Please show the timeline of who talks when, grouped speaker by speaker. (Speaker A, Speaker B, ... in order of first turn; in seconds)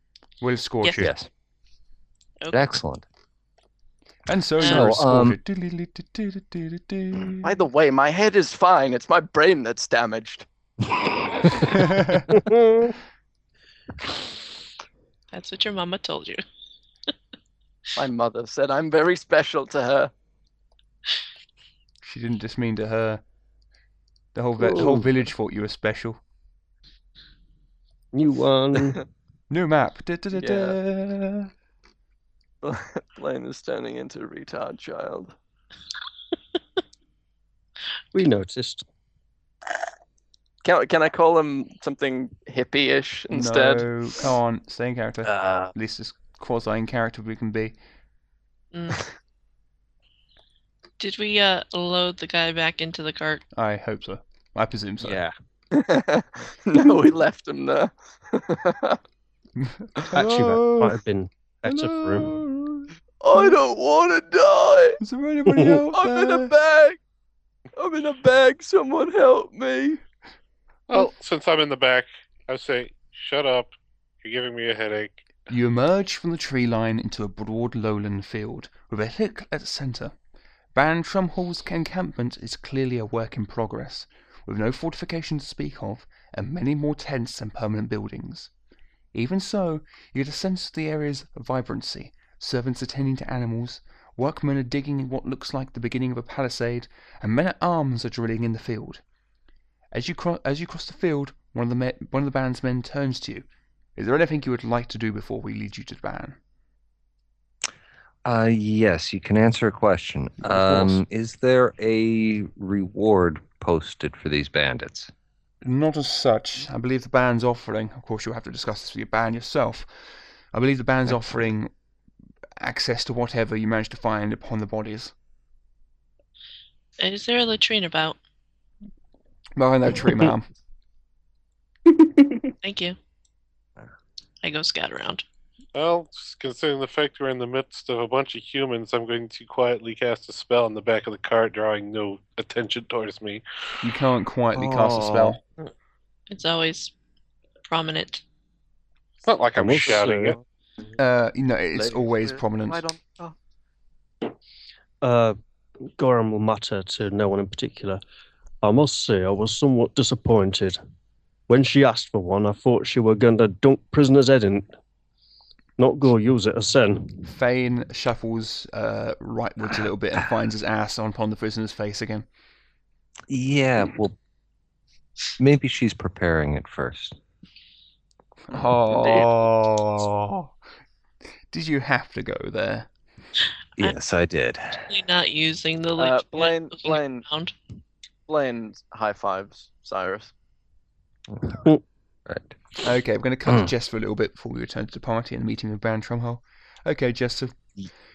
Speaker A: 0.4-1.3, 4.3-7.6, 11.7-12.2, 22.0-23.2, 24.3-26.2, 29.5-31.5, 43.3-47.8, 53.5-55.2, 59.6-61.0, 61.6-63.6, 65.0-66.5, 75.5-80.1, 80.7-88.5, 89.1-99.0, 99.9-103.4, 104.0-106.4, 110.4-111.0, 115.6-119.9, 120.5-121.7, 122.6-125.1, 129.6-130.5, 143.8-145.4, 151.0-152.8, 167.2-172.2, 178.5-180.5, 181.5-182.9, 192.8-197.6
Speaker B: 0.9-1.2, 2.5-3.0, 4.6-5.4, 45.3-45.7, 108.2-115.1, 173.3-174.2, 175.4-177.2, 183.8-184.9, 191.3-191.6, 192.2-192.6
Speaker C: 4.6-4.9, 15.3-16.4, 48.7-49.1, 51.0-53.4, 127.0-128.2, 132.6-133.0, 134.4-135.2, 146.3-146.9, 147.7-148.2, 184.9-187.5
Speaker D: 7.4-10.4, 11.6-11.8, 17.9-20.1, 30.3-30.8, 32.6-35.3, 40.6-43.9, 55.7-59.0, 63.2-65.0, 65.9-67.0, 67.8-70.0, 151.7-153.3, 178.9-179.3, 186.0-187.2, 188.3-190.3
Speaker E: 12.3-12.9, 24.6-25.1, 28.1-29.0, 38.1-38.8, 60.1-62.3, 65.5-65.8, 144.5-145.3, 149.6-150.4, 155.0-155.4, 155.9-158.0, 158.6-160.8, 161.5-164.7, 165.8-167.2, 191.5-191.8
Speaker F: 70.9-75.2, 135.7-143.4, 149.2-150.4